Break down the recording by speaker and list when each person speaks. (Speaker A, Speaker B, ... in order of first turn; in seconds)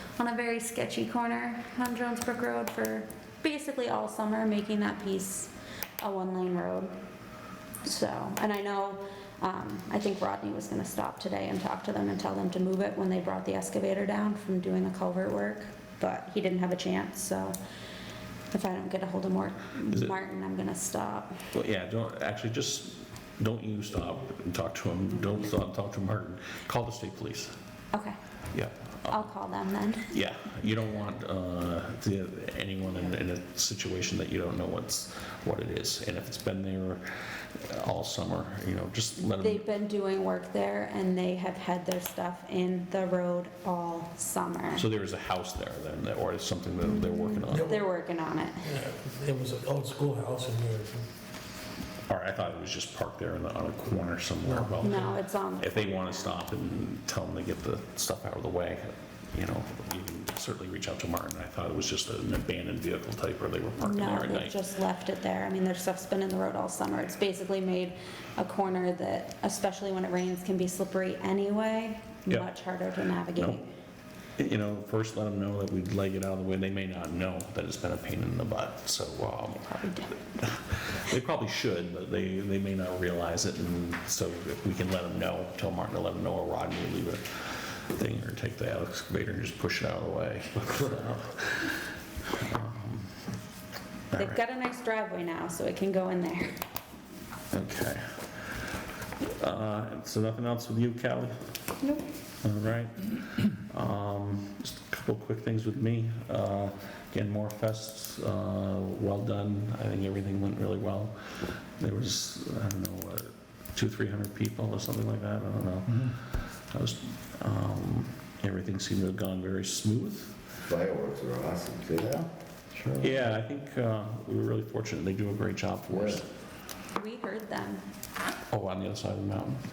Speaker A: 0.2-6.9, 7.8-17.6, 18.5-21.3, 29.1-30.1, 39.4-44.8, 46.8-48.6, 54.8-56.2, 63.8-73.6, 79.7-80.1, 94.2-96.6, 127.0-127.8
Speaker B: 21.5-27.5, 28.5-29.3, 30.1-39.6, 44.8-47.8, 52.1-64.6, 73.4-73.6, 74.4-79.7, 80.3-93.3, 94.1-94.4, 97.5-98.6, 99.2-101.3, 102.4-120.5, 123.0-126.2, 128.5-129.6
Speaker C: 47.5-47.9, 48.6-51.0, 54.4-55.1
Speaker D: 120.7-122.8, 125.9-126.2